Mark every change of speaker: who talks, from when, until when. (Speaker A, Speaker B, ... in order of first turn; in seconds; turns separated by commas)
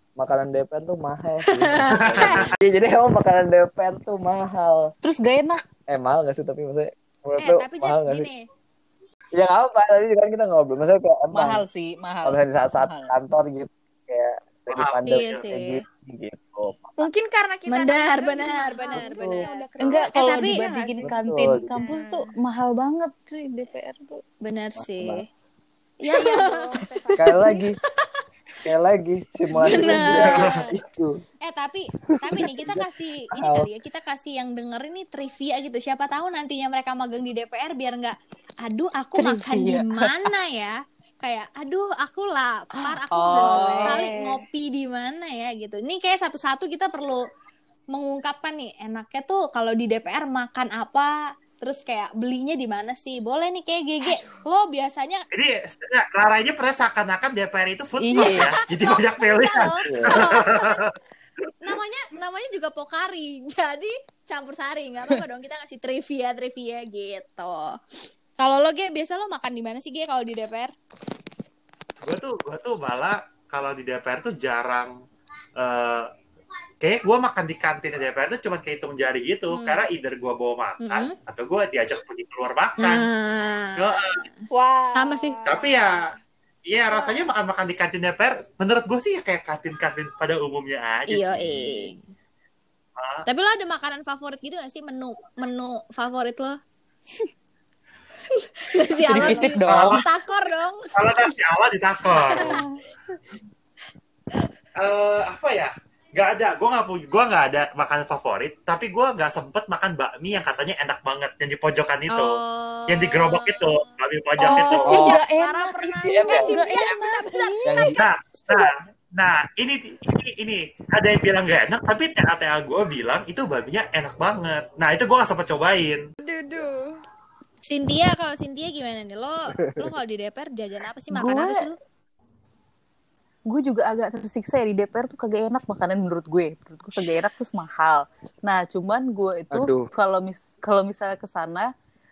Speaker A: 0.2-4.9, Speaker B: 1.6-2.5, Speaker C: 2.0-2.4, Speaker D: 5.0-5.6, Speaker A: 5.9-8.3, Speaker B: 7.4-8.4, Speaker A: 9.3-11.6, Speaker D: 11.3-13.1, Speaker A: 12.2-17.1, Speaker C: 14.7-15.5, Speaker B: 15.1-15.8, Speaker E: 17.0-22.3, Speaker B: 17.7-20.6, Speaker D: 19.8-24.2, Speaker A: 21.0-21.7, Speaker B: 24.4-25.2, Speaker A: 24.8-25.2, Speaker E: 26.0-27.4, Speaker B: 26.1-26.8, Speaker A: 27.2-27.8, Speaker A: 28.6-31.2, Speaker B: 29.6-30.8, Speaker D: 29.6-30.1, Speaker B: 31.4-47.2, Speaker A: 32.1-33.7, Speaker D: 39.2-40.3, Speaker D: 42.8-44.1, Speaker E: 43.3-44.4, Speaker B: 47.9-55.2, Speaker E: 54.1-54.4, Speaker C: 55.3-60.9, Speaker D: 58.0-58.5, Speaker B: 58.2-60.9, Speaker A: 59.8-60.3, Speaker B: 61.6-67.8, Speaker B: 68.4-70.7, Speaker C: 72.0-74.9, Speaker C: 75.6-76.1, Speaker C: 76.8-83.1, Speaker B: 79.5-79.9, Speaker B: 80.8-81.1, Speaker B: 82.8-84.4, Speaker C: 83.8-84.2, Speaker E: 84.5-86.1, Speaker B: 84.9-85.4, Speaker C: 85.5-86.0, Speaker C: 86.7-91.9, Speaker E: 87.0-87.3, Speaker B: 91.1-92.0, Speaker C: 93.0-93.2, Speaker B: 93.3-96.6, Speaker B: 98.3-101.3, Speaker C: 99.1-100.0, Speaker D: 99.1-100.0, Speaker C: 100.9-102.6, Speaker E: 102.3-102.7, Speaker C: 104.8-112.4, Speaker B: 112.1-113.9, Speaker C: 112.9-115.1, Speaker E: 114.4-117.4, Speaker B: 114.5-118.0, Speaker D: 114.5-115.3, Speaker A: 116.0-116.9, Speaker A: 117.6-118.0, Speaker C: 117.9-126.0, Speaker E: 126.2-127.0, Speaker B: 127.7-131.8, Speaker A: 129.5-129.9, Speaker D: 131.1-131.6, Speaker D: 133.5-141.7, Speaker A: 139.5-139.9